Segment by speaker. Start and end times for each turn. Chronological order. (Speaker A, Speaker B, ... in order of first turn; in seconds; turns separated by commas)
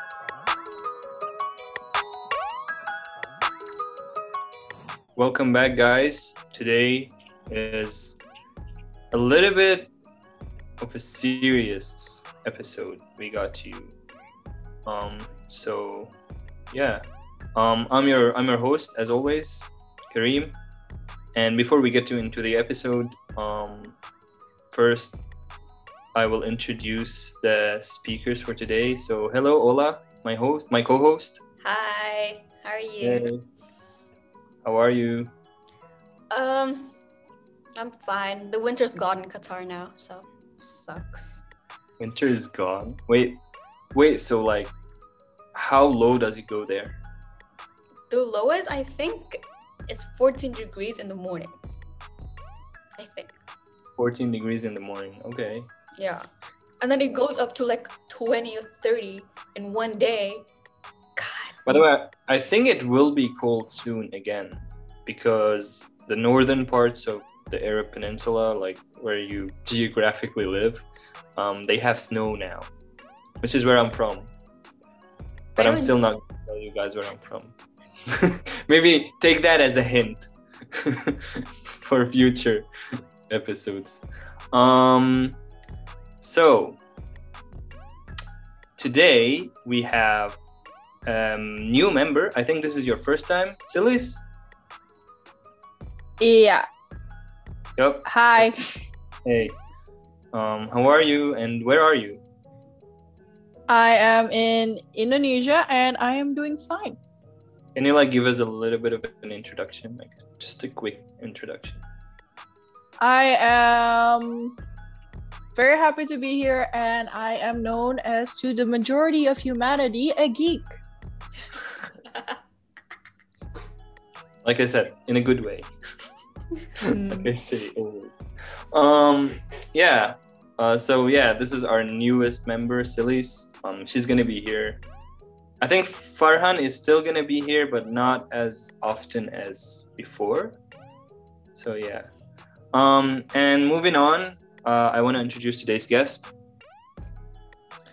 Speaker A: 5.2-8.2, Speaker A: 9.1-9.9, Speaker A: 10.8-13.9, Speaker A: 14.9-16.1, Speaker A: 16.7-17.0, Speaker A: 17.6-20.6, Speaker A: 21.3-23.9, Speaker A: 24.7-25.2, Speaker A: 26.1-31.4, Speaker B: 31.6-33.3, Speaker A: 33.0-33.4, Speaker A: 34.6-35.3, Speaker B: 36.3-36.9, Speaker B: 37.8-41.4, Speaker A: 42.0-43.4, Speaker A: 43.9-44.7, Speaker A: 45.5-46.9, Speaker B: 48.1-51.5, Speaker B: 53.0-53.3, Speaker A: 54.0-55.7, Speaker B: 56.0-56.3, Speaker B: 56.8-60.5, Speaker B: 61.1-61.6, Speaker A: 61.6-70.8, Speaker A: 71.3-72.7, Speaker A: 73.4-74.3, Speaker B: 75.6-76.0, Speaker A: 75.6-77.5, Speaker A: 78.1-81.2, Speaker A: 81.8-82.7, Speaker A: 83.3-85.4, Speaker A: 86.2-86.8, Speaker A: 88.8-90.4, Speaker A: 91.1-94.2, Speaker C: 96.2-96.7, Speaker A: 97.8-98.5, Speaker C: 98.0-98.9, Speaker A: 99.2-99.6, Speaker A: 100.3-102.2, Speaker C: 103.7-107.0, Speaker A: 107.8-111.8, Speaker C: 113.0-114.5, Speaker C: 115.5-120.7, Speaker A: 124.4-125.7, Speaker A: 126.8-128.1, Speaker C: 126.8-127.3, Speaker A: 128.7-134.8, Speaker A: 135.6-140.6, Speaker A: 141.5-142.1, Speaker A: 142.7-146.3